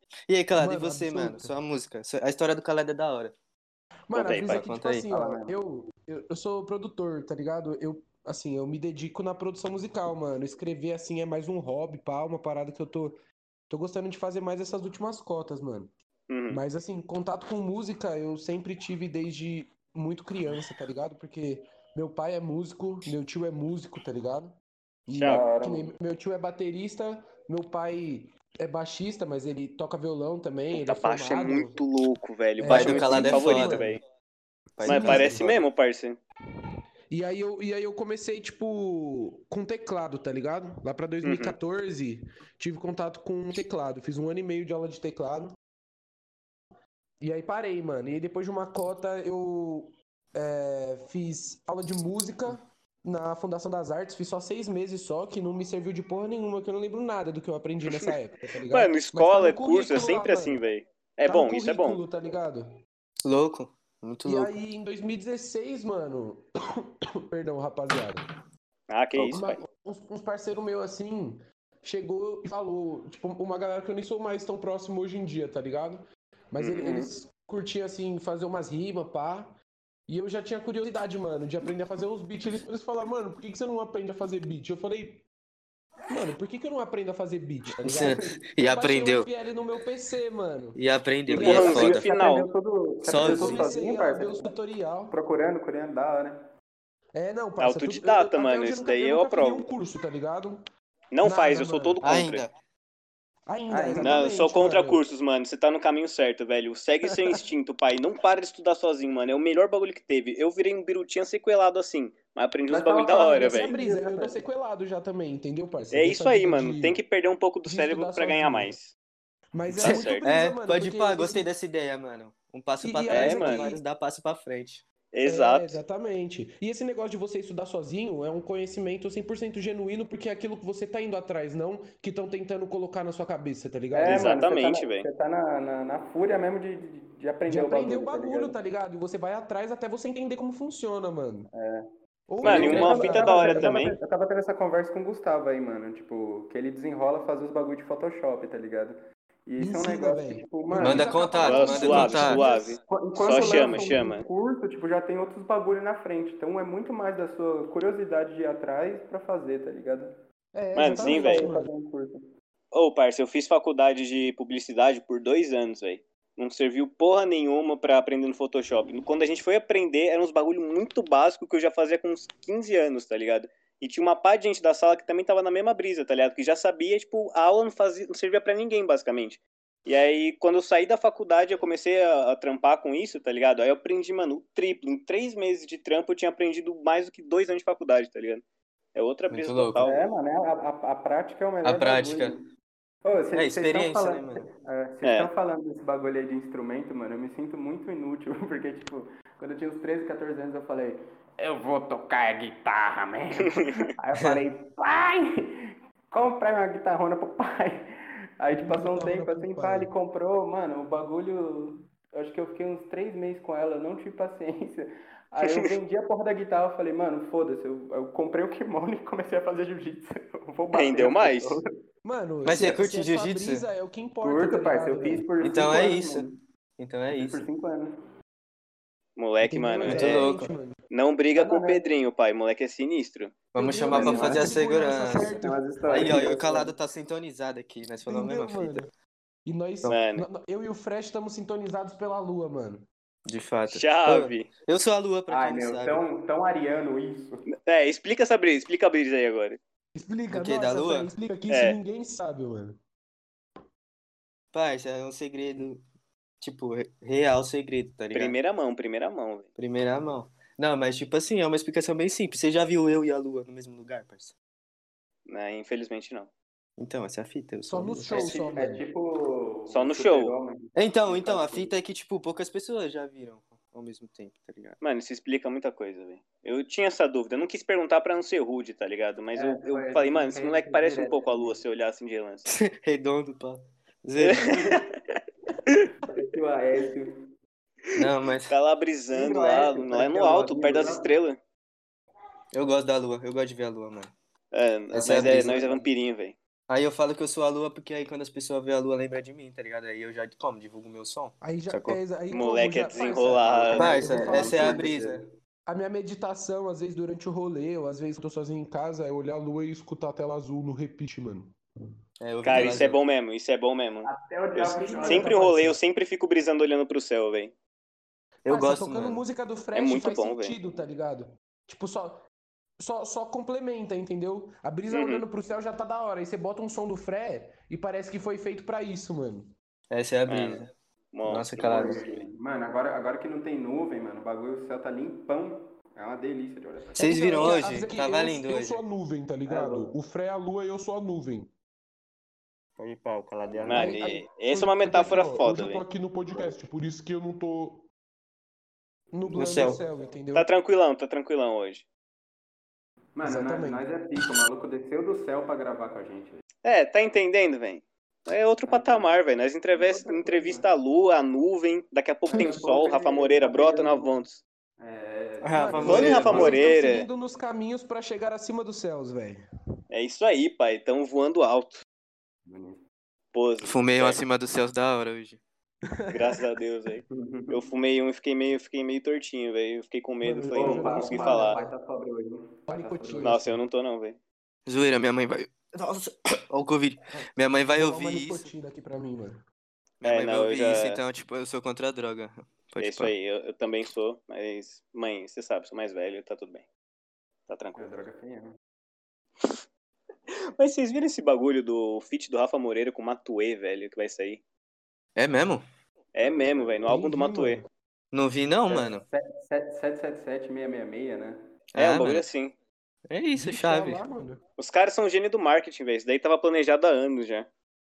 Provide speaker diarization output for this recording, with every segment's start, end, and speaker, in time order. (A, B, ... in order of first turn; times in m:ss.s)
0:00.3-0:03.3 A
0:00.5-0:01.5 B
0:04.1-0:13.2 B
0:04.1-0:04.6 C
0:04.5-0:05.1 A
0:05.1-0:05.6 D
0:13.7-0:15.9 B
0:16.3-0:16.6 C
0:16.5-0:31.8 B
0:25.1-0:25.4 C
0:25.2-0:25.9 D
0:30.7-0:34.0 C
0:32.6-0:33.9 B
0:32.7-0:33.9 A
0:34.8-0:35.6 A
0:34.8-0:35.5 B
0:34.8-0:36.2 C
0:37.1-0:45.6 B
0:41.2-0:41.5 C
0:47.2-1:00.6 B
0:57.8-0:58.2 C
0:58.7-1:02.0 C
1:01.2-1:02.7 B
1:03.2-1:04.5 A
1:04.2-1:08.2 B
1:08.9-1:09.6 C
1:09.2-1:19.6 B
1:16.6-1:17.1 C
1:20.1-1:25.2 B
1:26.1-1:30.8 B
1:27.8-1:29.3 A
1:30.7-1:32.0 A
1:31.3-1:32.5 C
1:31.3-1:32.0 B
1:31.4-1:34.5 D
1:33.0-1:33.7 A
1:33.2-1:35.2 B
1:35.1-1:36.4 D
1:37.1-1:40.6 B
1:37.6-1:39.6 C
1:41.1-1:42.5 C
1:41.2-1:42.0 B
1:42.0-1:42.5 A
1:43.5-1:45.0 B
1:43.7-1:44.3 D
1:44.0-1:53.7 C
1:52.7-1:54.4 D
1:53.1-1:57.0 B
1:55.9-1:58.9 C
1:57.6-1:58.7 B
1:59.5-2:01.5 B
1:59.7-2:04.8 A
1:59.8-2:00.3 C
2:02.8-2:03.8 B
2:03.1-2:03.7 C
2:05.1-2:05.8 C
2:05.2-2:14.3 B
2:13.9-2:18.5 D
2:14.0-2:15.0 C
2:17.5-2:21.5 B
2:21.5-2:21.8 D
2:22.3-2:23.8 B
2:22.4-2:24.0 C
2:22.4-2:40.1 D
2:29.6-2:32.7 B
2:30.8-2:32.4 A
2:31.4-2:34.2 C
2:40.5-2:41.7 B
2:40.7-2:41.5 C
2:40.9-2:42.2 D
2:42.7-3:08.4 C
3:08.9-3:10.1 C
3:09.3-3:09.8 A
3:09.8-3:12.5 D
3:11.6-3:12.3 A
3:13.0-3:25.3 D
3:13.3-3:14.4 A
3:15.0-3:15.3 C
3:23.4-3:23.7 C
3:26.1-3:27.8 D
3:28.4-3:41.7 D
3:28.5-3:29.9 B
3:35.4-3:35.7 C
3:40.7-3:41.6 C
3:42.0-3:45.3 B
3:42.4-3:43.6 A
3:42.5-3:42.8 D
3:44.2-3:46.4 D
3:45.4-3:46.2 A
3:46.8-3:47.4 A
3:47.1-3:47.9 D
3:49.2-3:50.3 C
3:49.4-3:50.8 B
3:49.8-3:50.5 A
3:50.9-3:53.4 C
3:51.3-3:51.8 D
3:53.5-3:55.3 A
3:53.6-3:56.2 B
3:53.9-3:56.7 D
3:55.9-3:58.8 A
3:58.0-3:58.9 B
3:59.4-4:02.8 B
3:59.9-4:00.2 C
4:03.2-4:06.0 A
4:03.7-4:04.5 C
4:05.3-4:07.4 D
4:07.5-4:09.6 C
4:09.9-4:12.8 B
4:10.3-4:11.1 A
4:11.5-4:11.8 C
4:14.5-4:15.8 A
4:16.4-4:18.4 A
4:18.1-4:19.5 C
4:19.6-4:24.3 A
4:25.3-4:26.3 C
4:26.8-4:28.3 A
4:27.7-4:28.8 B
4:28.1-4:31.7 D
4:29.7-4:30.3 C
4:30.7-4:34.8 A
4:34.8-4:42.4 C
4:39.3-4:41.6 D
4:42.5-4:44.8 A
4:44.2-4:45.2 C
4:46.0-4:47.1 D
4:47.9-4:48.5 A
4:48.5-4:51.4 C
4:49.1-4:51.1 D
4:52.5-4:54.1 A
4:54.5-4:56.4 C
4:54.9-4:55.6 A
4:55.0-4:55.9 D
4:56.7-5:02.0 A
5:01.4-5:04.9 B
5:02.3-5:04.3 C
5:03.7-5:05.2 D
5:03.7-5:05.2 A
5:05.7-5:11.6 B
5:12.2-5:13.0 A
5:12.4-5:17.5 C
5:14.0-5:15.5 D
5:14.6-5:15.8 B
5:18.4-5:19.2 A
5:18.5-5:22.2 B
5:19.7-5:20.6 C
5:22.8-5:29.5 B
5:24.9-5:25.2 C
5:29.9-5:30.7 A
5:30.3-5:32.2 C
5:31.2-5:32.2 A
5:31.6-5:37.6 D
5:37.0-5:38.8 A
5:37.0-5:41.5 B
5:39.5-5:39.9 D
5:42.8-5:43.9 D
5:43.6-5:45.8 C
5:43.7-5:47.8 B
5:49.1-5:50.5 B
5:49.3-5:49.9 D
5:49.3-5:49.8 A
5:50.3-5:51.8 C
5:53.2-5:56.4 D
5:53.2-5:53.9 B
5:56.6-6:04.4 C
5:58.7-5:59.2 D
5:59.7-6:00.7 D
6:02.3-6:04.2 D
6:04.8-6:06.9 D
6:05.4-6:06.6 A
6:05.5-6:09.4 B
6:05.8-6:07.1 C
6:09.9-6:11.8 C
6:12.4-6:12.8 D
6:13.3-6:14.2 C
6:13.6-6:15.4 A
6:15.9-6:16.4 B
6:16.1-6:21.6 C
6:17.1-6:17.6 D
6:20.2-6:21.7 B
6:20.5-6:23.6 D
6:22.7-6:23.4 B
6:23.2-6:24.2 C
6:24.7-6:28.5 A
6:27.1-6:29.4 B
6:30.0-6:33.1 A
6:30.0-6:31.0 C
6:32.8-6:36.6 C
6:37.5-6:38.0 C
6:37.8-6:38.5 D
6:40.6-6:44.4 C
6:45.2-6:45.6 A
6:46.1-6:47.6 C
6:46.2-6:47.0 D
6:46.9-6:47.6 B
6:48.1-6:49.0 A
6:48.7-6:51.4 D
6:51.7-6:52.2 A
6:51.8-6:52.5 C
6:53.1-6:54.0 A
6:53.3-6:54.4 B
6:54.6-6:57.5 C